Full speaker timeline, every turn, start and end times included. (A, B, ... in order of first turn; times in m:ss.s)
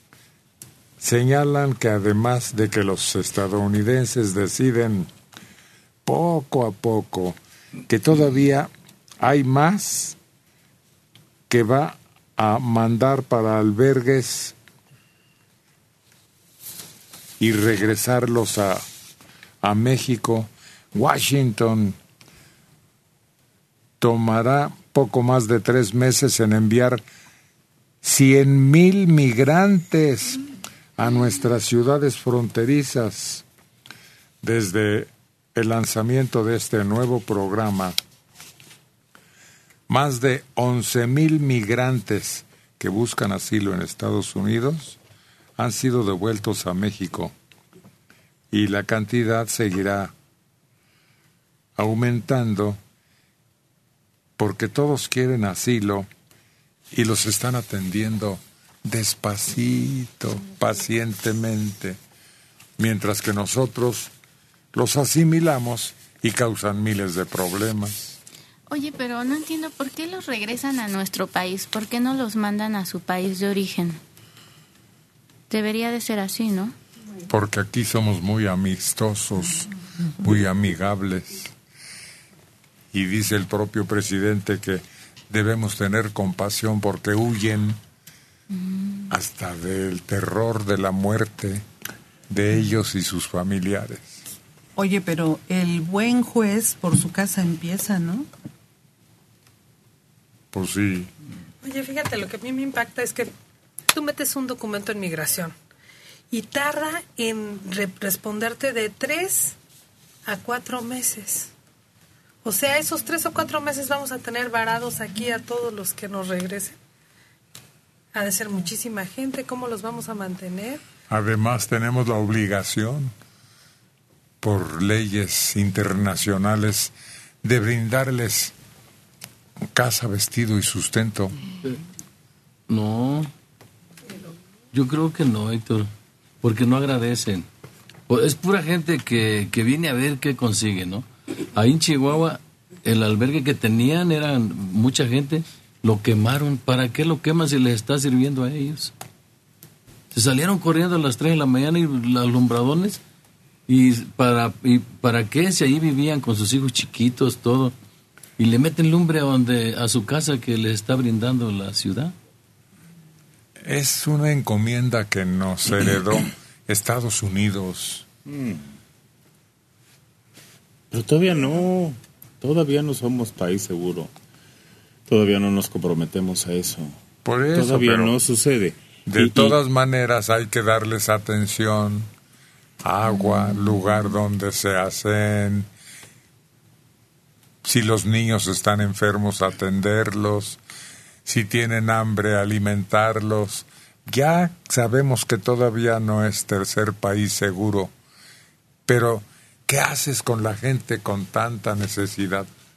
0:01.0-0:05.1 A
0:06.1-0:10.2 A
0:11.5-0:14.6 A
0:17.4-0:18.8 A
0:19.6-0:22.0 A
0:24.0-0:27.0 A
0:28.0-0:30.4 A
0:31.0-0:33.4 A
0:34.4-0:38.0 A
0:39.9-0:45.0 A
0:45.6-0:47.4 A
0:48.5-0:50.1 A
0:51.8-0:52.8 A
0:54.4-0:56.1 A
0:56.9-1:02.0 A
1:02.8-1:04.1 A
1:04.7-1:08.2 A
1:08.7-1:14.0 B
1:15.5-1:16.8 B
1:17.3-1:19.7 A
1:20.2-1:21.5 A
1:22.9-1:27.8 A
1:29.1-1:31.6 A
1:32.3-1:34.2 A
1:34.8-1:38.3 C
1:40.5-1:41.1 A
1:41.6-1:43.3 D
1:43.9-1:45.5 D
1:46.3-1:49.6 D
1:50.3-1:51.5 D
1:52.4-1:56.7 D
1:58.2-2:00.8 D
2:01.1-2:03.1 A
2:04.4-2:08.5 A
2:09.7-2:11.3 A
2:12.7-2:13.3 E
2:14.7-2:15.9 E
2:16.4-2:17.5 E
2:18.1-2:28.9 E
2:30.1-2:33.0 E
2:33.7-2:37.7 E
2:38.4-2:42.1 E
2:43.6-2:48.1 A
2:48.3-2:48.6 F
2:50.9-2:54.1 F
2:55.1-2:57.0 F
2:57.2-2:58.2 A
2:57.5-2:59.6 F
2:59.1-3:02.1 A
3:02.8-3:05.7 A
3:07.6-3:10.6 A
3:11.2-3:17.9 A
3:18.9-3:22.5 A